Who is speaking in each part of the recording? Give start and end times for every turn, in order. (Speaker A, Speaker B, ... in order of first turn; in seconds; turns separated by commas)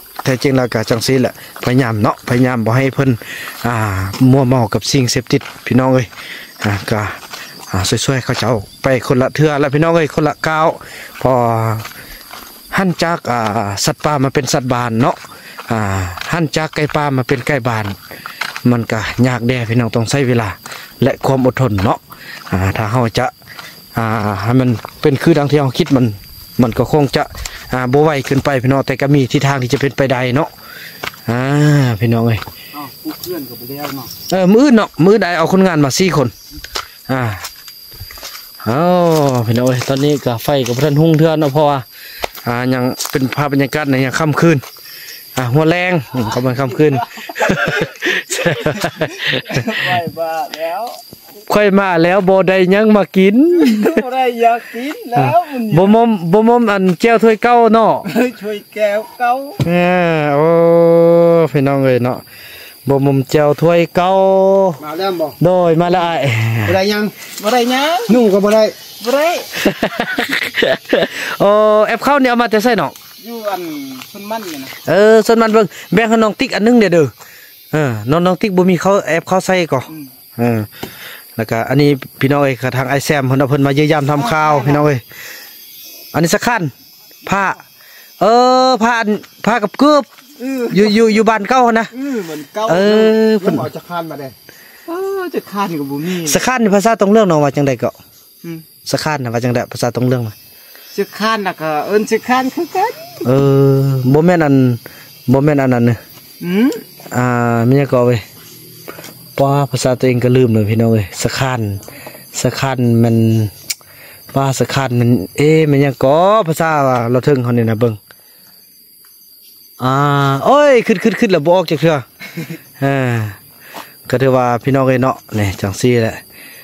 Speaker A: 0.2-6.1, Speaker A: 6.6-7.2, Speaker A: 7.7-11.9, Speaker A: 12.7-18.0, Speaker A: 18.6-23.3, Speaker A: 23.9-30.5, Speaker A: 31.3-32.4, Speaker B: 32.7-34.1, Speaker A: 34.3-36.3, Speaker A: 37.1-37.4, Speaker A: 38.6-41.8, Speaker A: 42.4-44.6, Speaker A: 45.4-49.6, Speaker B: 46.4-51.0, Speaker A: 51.5-54.0, Speaker B: 53.5-55.9, Speaker A: 55.1-58.1, Speaker B: 58.0-59.6, Speaker A: 59.6-62.2, Speaker A: 62.9-64.8, Speaker B: 64.8-65.3, Speaker A: 65.4-66.8, Speaker B: 66.7-69.5, Speaker A: 69.6-72.9, Speaker B: 73.2-74.8, Speaker A: 74.9-77.1, Speaker A: 77.7-80.7, Speaker A: 81.4-85.0, Speaker B: 84.2-84.9, Speaker A: 86.1-86.7, Speaker A: 87.2-87.6, Speaker A: 88.2-90.1, Speaker B: 90.4-91.1, Speaker A: 90.7-91.9, Speaker B: 91.9-94.3, Speaker A: 92.7-93.7, Speaker B: 94.9-96.4, Speaker A: 96.2-98.0, Speaker A: 98.9-100.3, Speaker B: 100.9-103.2, Speaker A: 103.2-106.0, Speaker B: 106.4-106.8, Speaker A: 107.1-108.2, Speaker A: 109.4-111.8, Speaker A: 112.3-113.5, Speaker A: 114.3-118.0, Speaker A: 119.8-122.0, Speaker A: 122.8-123.4, Speaker A: 124.1-126.2